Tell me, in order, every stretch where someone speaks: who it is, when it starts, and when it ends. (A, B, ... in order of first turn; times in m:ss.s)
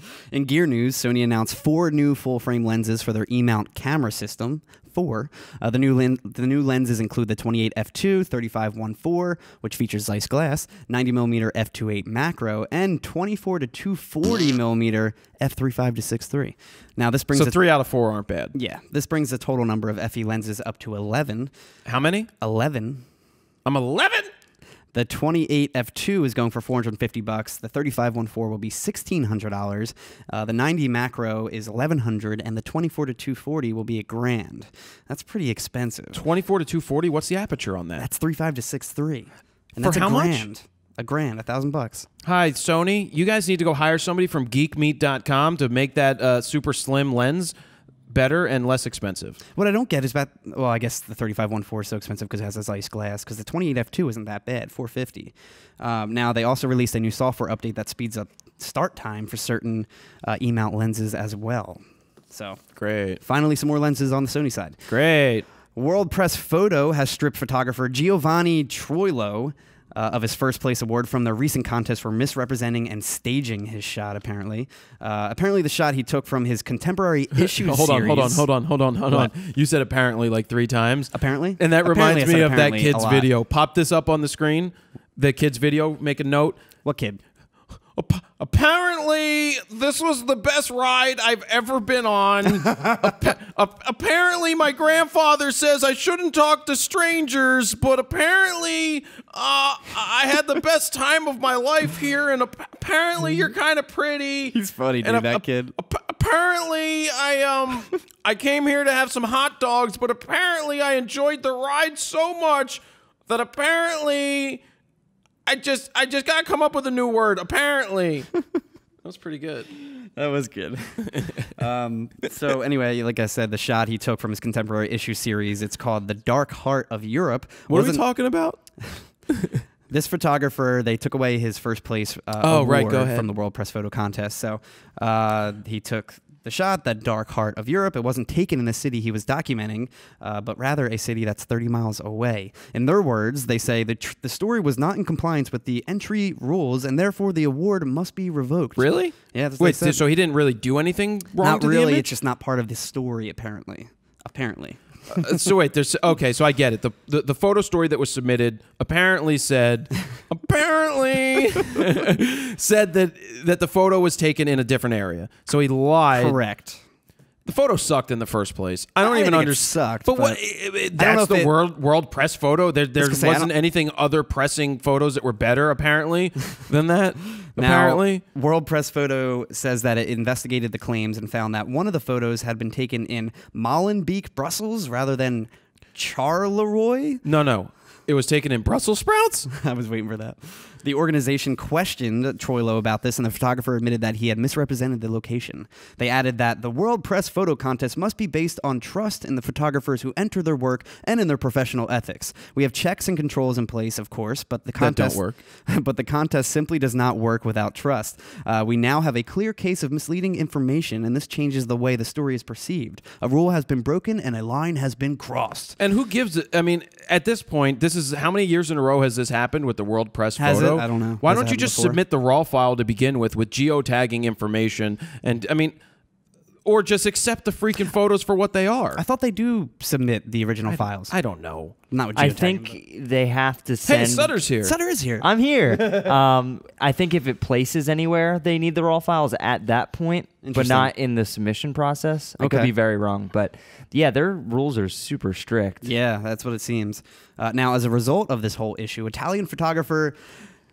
0:00.3-0:17.6 A
0:17.3-0:18.5 B
0:18.5-0:21.5 A
0:21.8-0:22.3 B
0:22.4-0:23.0 A
0:23.6-0:24.3 B
0:24.9-0:36.2 A
0:36.1-0:38.1 B
0:38.0-0:42.1 A
0:39.8-0:40.5 B
0:42.2-0:47.5 B
0:48.1-0:49.4 B
0:49.5-1:02.6 A
1:02.8-1:03.2 B
1:03.2-1:04.8 A
1:04.9-1:05.4 B
1:05.7-1:18.5 A
1:17.3-1:26.6 B
1:21.1-1:23.3 A
1:26.8-1:27.2 A
1:27.9-1:54.6 B
1:44.5-1:45.7 A
1:55.4-1:58.3 B
1:59.0-1:59.7 B
1:59.8-2:08.0 A
2:01.0-2:01.5 B
2:07.7-2:08.6 B
2:09.3-2:09.6 B
2:09.9-2:30.0 A
2:12.4-2:13.2 B
2:28.8-2:32.1 B
2:31.4-2:35.4 A
2:35.1-2:46.4 B
2:46.1-2:46.8 A
2:47.4-2:58.2 B
2:49.0-2:50.4 A
2:51.0-2:51.5 A
2:53.0-2:53.5 A
2:57.6-3:07.2 A
3:07.2-3:09.5 B
3:09.5-3:35.8 A
3:24.8-3:25.4 B
3:35.8-3:45.8 B
3:40.4-3:42.0 A
3:46.6-3:49.0 B
3:49.0-3:51.1 A
3:50.7-3:51.7 B
3:51.9-3:52.8 A
3:52.2-3:54.3 C
3:53.8-3:54.7 B
3:54.6-3:55.2 A
3:55.2-4:05.9 C
4:00.4-4:00.9 A
4:02.4-4:02.7 A
4:05.8-4:10.2 A